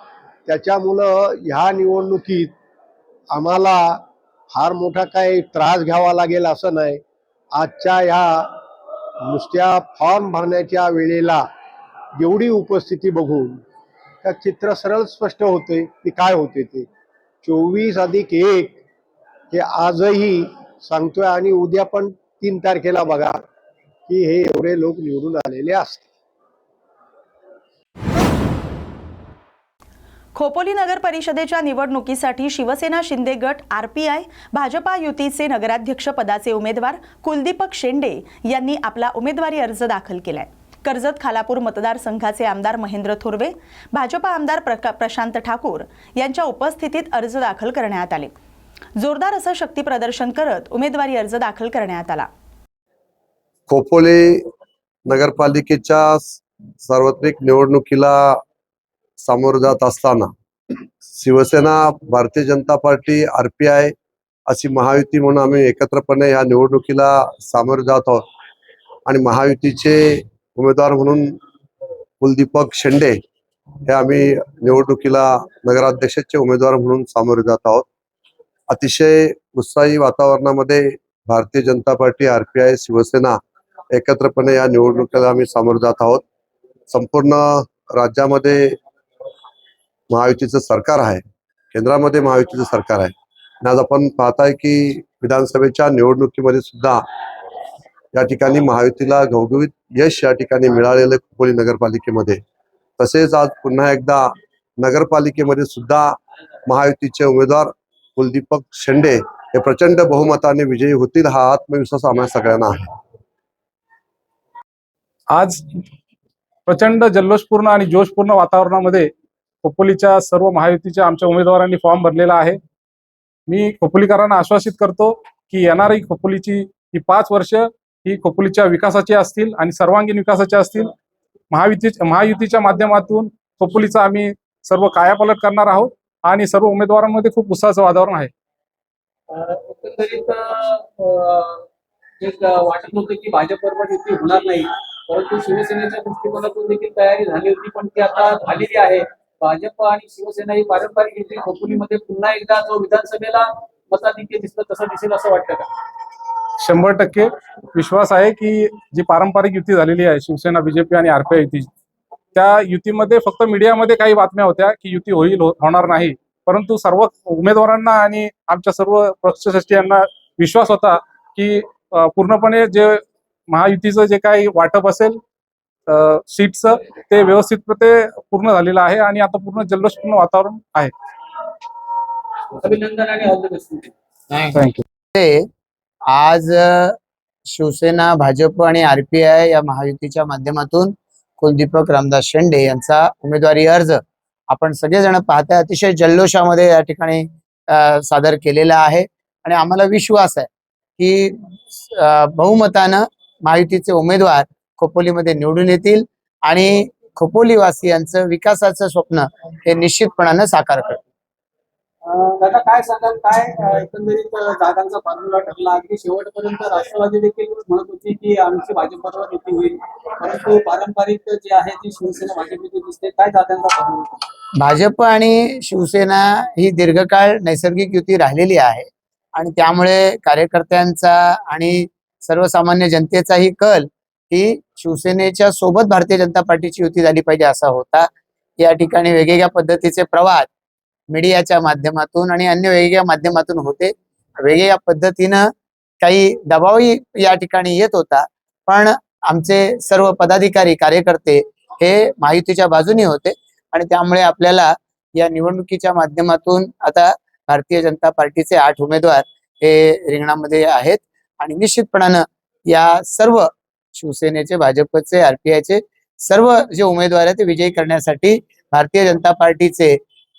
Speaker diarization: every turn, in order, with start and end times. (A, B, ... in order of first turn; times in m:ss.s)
0:00.4-0:02.5 A
0:03.3-0:07.0 A
0:07.5-0:08.6 A
0:09.2-0:11.4 A
0:12.2-0:13.6 A
0:14.2-0:16.9 A
0:17.4-0:18.8 A
0:19.5-0:23.4 A
0:24.1-0:26.0 A
0:30.3-0:48.3 B
0:49.0-0:52.3 B
0:53.7-0:54.5 C
0:55.0-0:58.4 C
0:59.2-1:00.3 C
1:01.1-1:03.9 C
1:04.5-1:08.2 C
1:09.0-1:11.4 C
1:12.2-1:13.2 C
1:13.8-1:17.8 C
1:18.7-1:23.4 C
1:23.9-1:26.2 C
1:26.9-1:28.8 C
1:30.1-1:37.0 C
1:38.1-1:42.4 C
1:43.0-1:52.9 C
1:55.3-1:55.6 D
1:56.7-1:59.1 D
1:59.6-2:02.6 D
2:03.5-2:10.9 D
2:11.5-2:18.3 D
2:19.3-2:21.6 E
2:22.2-2:35.7 E
2:36.6-2:41.7 D
2:42.3-2:55.2 D
2:55.9-3:00.9 D
3:02.5-3:03.9 E
3:04.4-3:04.8 D
3:05.1-3:05.5 F
3:06.1-3:07.0 F
3:07.5-3:31.0 F
3:32.0-3:44.2 E
3:44.6-4:00.5 F
4:01.1-4:05.5 F
4:06.0-4:30.0 F